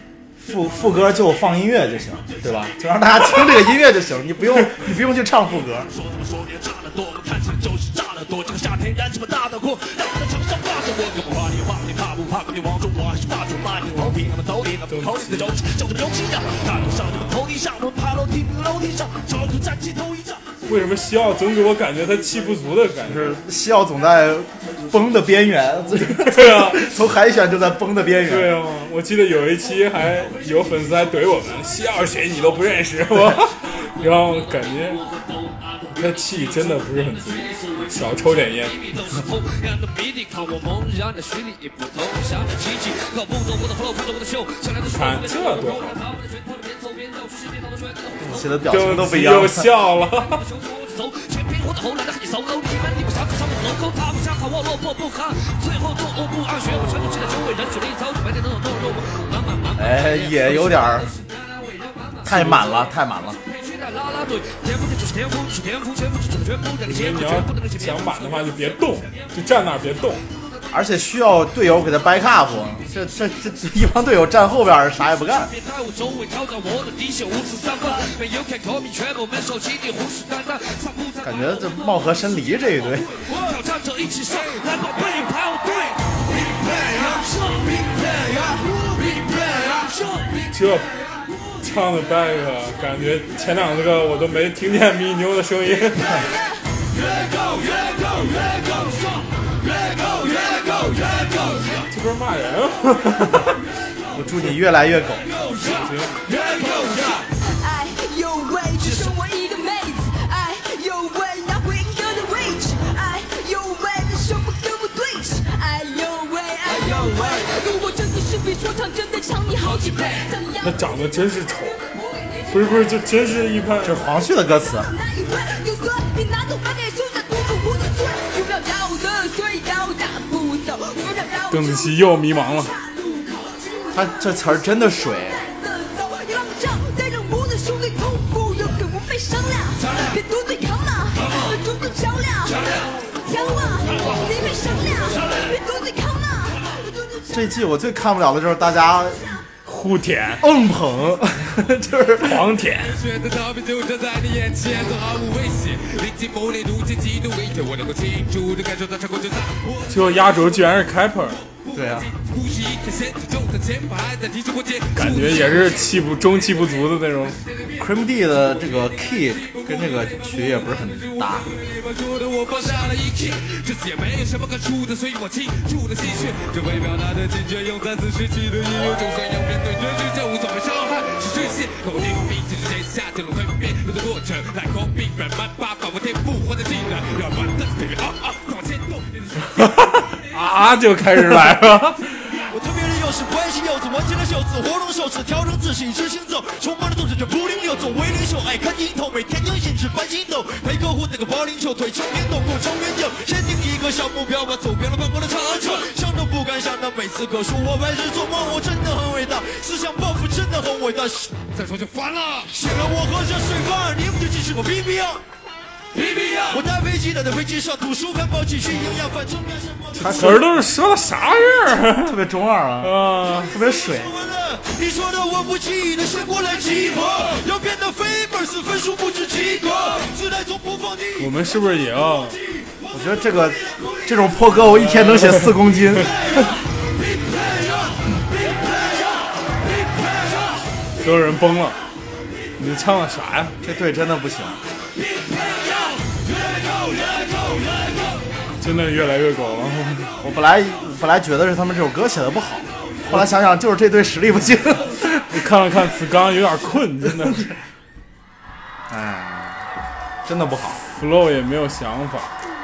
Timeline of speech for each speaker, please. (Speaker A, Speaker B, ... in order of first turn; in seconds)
Speaker A: 0.4-5.9, 23.0-28.6, 48.2-49.7, 59.8-61.1, 62.2-63.4, 70.7-75.5, 81.2-83.2, 104.1-105.3, 123.8-124.9, 133.9-135.4, 147.3-149.3, 150.4-152.5, 161.7-162.1, 167.8-171.5, 219.9-220.5, 222.0-224.1, 232.9-236.3, 243.6-244.6, 250.2-255.3, 258.9-259.6, 260.2-260.8
Speaker B: 5.9-20.4, 192.5-211.3, 212.5-215.2, 216.5-220.4, 223.5-231.3, 237.2-238.0
Speaker C: 14.9-15.6, 20.6-23.4, 25.9-27.0, 28.2-35.0, 35.9-38.8, 44.9-46.0, 48.6-50.4, 62.3-62.7, 66.8-70.2, 90.5-90.9, 91.6-96.2, 101.9-103.5, 105.7-106.2, 120.6-121.8, 122.5-124.0, 131.5-132.7, 149.6-150.4, 152.2-153.0, 159.9-161.4, 164.9-167.4, 190.3-192.2, 220.0-222.2, 222.8-223.5, 231.2-232.4, 234.6-236.1, 241.0-241.8, 242.6-243.5, 248.6-250.1, 255.3-257.5, 260.8-262.3
Speaker D: 38.5-48.4, 50.2-62.5, 63.4-69.2, 75.3-81.9, 82.5-90.4, 119.6-120.2, 152.8-160.5, 161.7-165.8, 167.5-190.2, 211.5-212.5, 215.9-216.7
Speaker E: 107.3-120.9, 121.6-123.0, 124.6-147.2